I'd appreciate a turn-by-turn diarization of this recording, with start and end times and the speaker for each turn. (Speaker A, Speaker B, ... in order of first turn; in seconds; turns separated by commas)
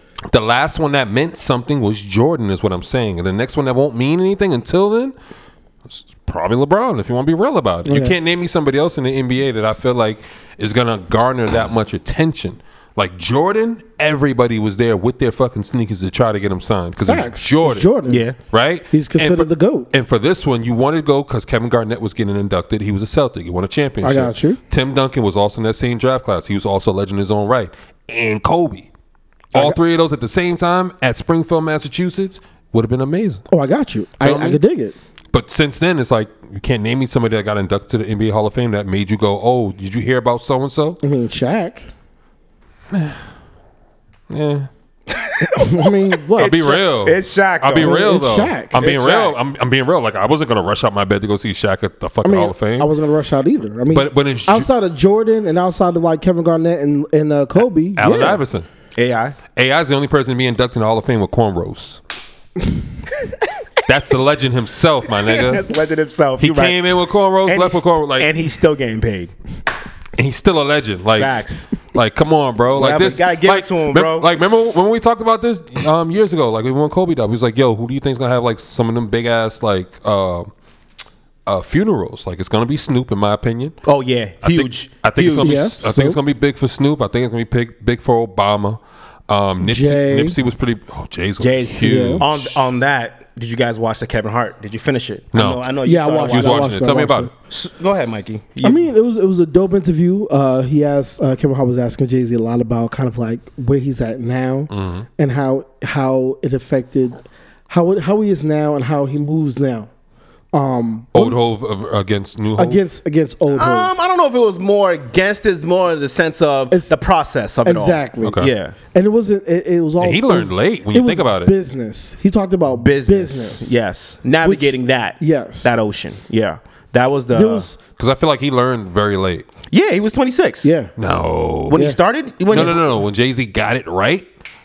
Speaker A: 0.3-5.1, Speaker A: 5.9-28.9, Speaker B: 7.8-8.2, Speaker B: 17.0-18.2, Speaker C: 18.1-18.4, Speaker B: 18.9-19.9, Speaker B: 24.0-24.6, Speaker A: 29.5-33.4, Speaker B: 33.5-35.0, Speaker A: 34.2-34.6, Speaker A: 35.3-41.0, Speaker B: 41.0-41.9, Speaker A: 42.9-43.2, Speaker A: 44.3-44.7, Speaker C: 45.1-48.1, Speaker B: 45.5-46.8, Speaker A: 46.4-52.9, Speaker B: 47.8-48.8, Speaker C: 48.8-49.3, Speaker B: 52.2-58.4, Speaker A: 53.9-54.7, Speaker A: 58.0-58.7, Speaker C: 59.0-59.4, Speaker A: 59.5-62.0, Speaker A: 63.9-65.6, Speaker C: 65.2-66.8, Speaker A: 66.4-68.3, Speaker C: 67.5-69.3, Speaker A: 70.2-80.5, Speaker C: 71.2-71.7, Speaker C: 72.8-74.3, Speaker A: 81.5-83.8, Speaker C: 83.8-85.5, Speaker A: 84.4-92.7, Speaker B: 85.4-86.2, Speaker B: 89.6-90.4, Speaker C: 91.4-96.7, Speaker B: 91.8-92.2, Speaker A: 95.3-95.7, Speaker B: 95.8-97.3, Speaker A: 96.2-97.3, Speaker C: 97.5-98.8, Speaker B: 98.6-109.9, Speaker A: 104.7-105.0, Speaker B: 110.5-111.4, Speaker A: 111.1-112.8, Speaker B: 112.6-114.0, Speaker C: 113.5-118.8, Speaker B: 117.6-123.8, Speaker A: 118.2-118.5, Speaker A: 120.0-121.5, Speaker C: 122.8-127.7, Speaker B: 124.4-125.7, Speaker B: 127.3-127.8, Speaker A: 128.0-129.5, Speaker C: 129.7-130.7, Speaker B: 130.6-130.9, Speaker A: 131.0-131.9, Speaker C: 131.7-132.8, Speaker B: 131.7-132.0, Speaker A: 132.5-134.2